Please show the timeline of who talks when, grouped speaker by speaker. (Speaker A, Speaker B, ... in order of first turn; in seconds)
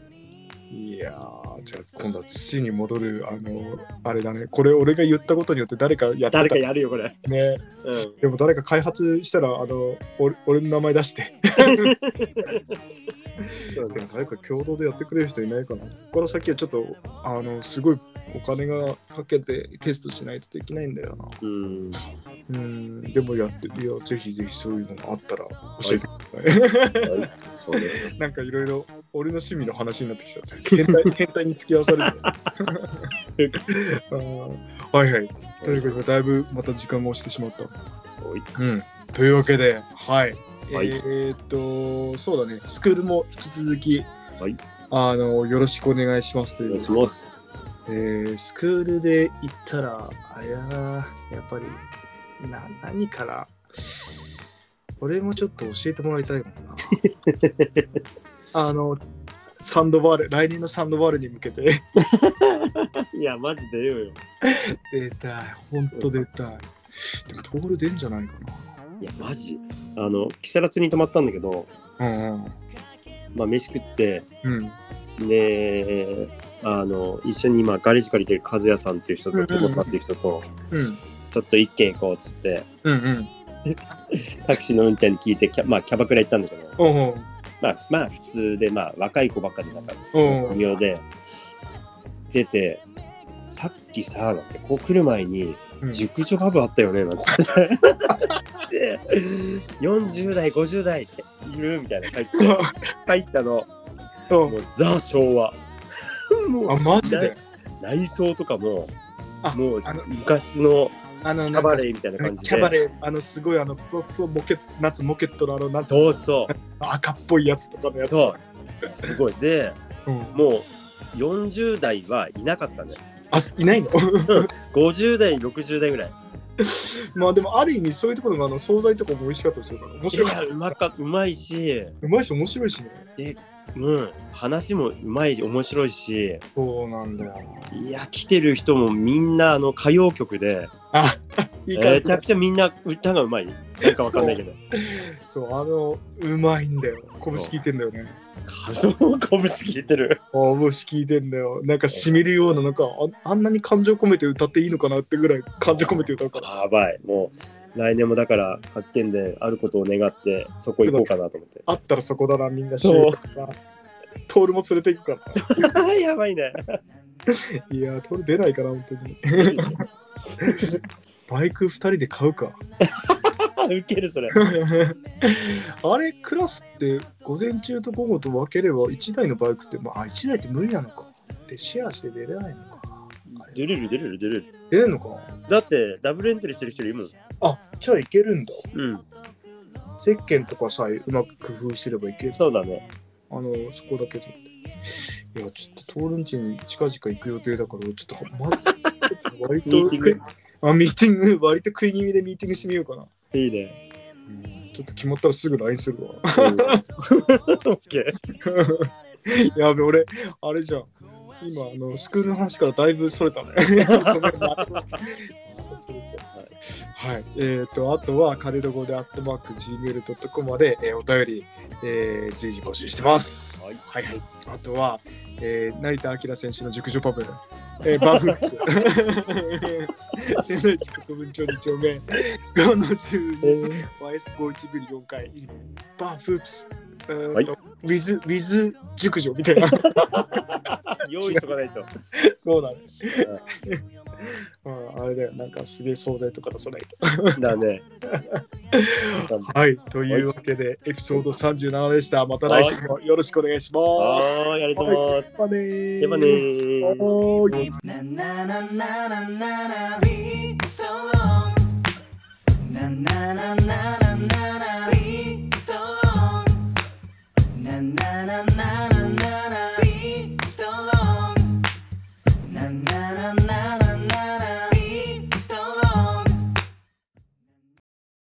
Speaker A: 0.7-6.6, 7.2-7.7, 8.2-11.9, 13.4-21.4, 22.5-33.1, 33.7-37.8, 38.6-44.1, 44.9-47.1, 47.9-51.9, 52.4-53.6, 55.0-56.9, 58.5-59.0, 59.6-61.9, 64.4-68.7, 72.0-72.5, 74.4-74.8, 79.3-80.0, 80.7-81.0, 82.8-83.3, 86.8-87.3, 90.1-90.7, 102.3-102.7, 104.3-104.6, 106.7-107.4, 109.4-110.1, 111.2-118.4, 120.1-120.4, 123.3-124.5, 126.6-130.8, 132.0-133.1, 136.6-137.7, 140.9-142.2, 143.8-148.2, 150.3-156.5, 160.8-161.1, 161.7-163.6, 164.3-165.7, 167.3-169.8, 170.4-170.8, 171.3-172.6, 174.3-183.6, 184.7-185.3, 187.4-188.7, 190.0-192.5, 193.3-194.5, 195.3-203.1, 204.3-206.8, 208.4-240.4, 241.2-241.5, 242.1-247.5, 248.1-257.8
Speaker B: 6.3-7.2, 7.8-8.2, 11.6-12.8, 13.7-14.1, 21.4-22.0, 27.0-28.1, 30.7-31.1, 32.0-32.5, 33.4-33.6, 35.6-36.0, 40.7-41.0, 46.7-47.3, 56.9-57.9, 62.2-64.2, 65.9-66.2, 69.0-71.7, 73.3-74.3, 75.2-80.5, 81.3-82.7, 83.7-86.8, 87.6-91.1, 92.3-92.8, 93.5-103.7, 104.5-105.6, 106.3-108.9, 109.5-111.0, 111.5-112.8, 115.9-116.5, 118.1-119.8, 120.3-123.0, 124.3-126.2, 130.1-132.0, 133.2-136.4, 137.7-140.7, 141.7-144.6, 147.3-147.6, 148.5-150.2, 151.9-152.2, 155.8-161.7, 162.8-163.2, 165.3-166.8, 169.4-169.8, 170.5-170.8, 172.8-174.4, 183.3-184.5, 185.5-187.1, 188.7-189.1, 192.3-192.9, 198.8-199.1, 199.7-200.2, 203.3-203.8, 206.4-208.2, 213.8-214.9, 227.8-228.5, 233.4-233.8, 239.7-241.9, 247.4-247.8, 249.2-249.6, 252.5-252.8, 254.0-255.3, 256.0-257.1
Speaker C: 257.8-261.6, 262.7-266.5, 267.6-271.5, 272.5-276.3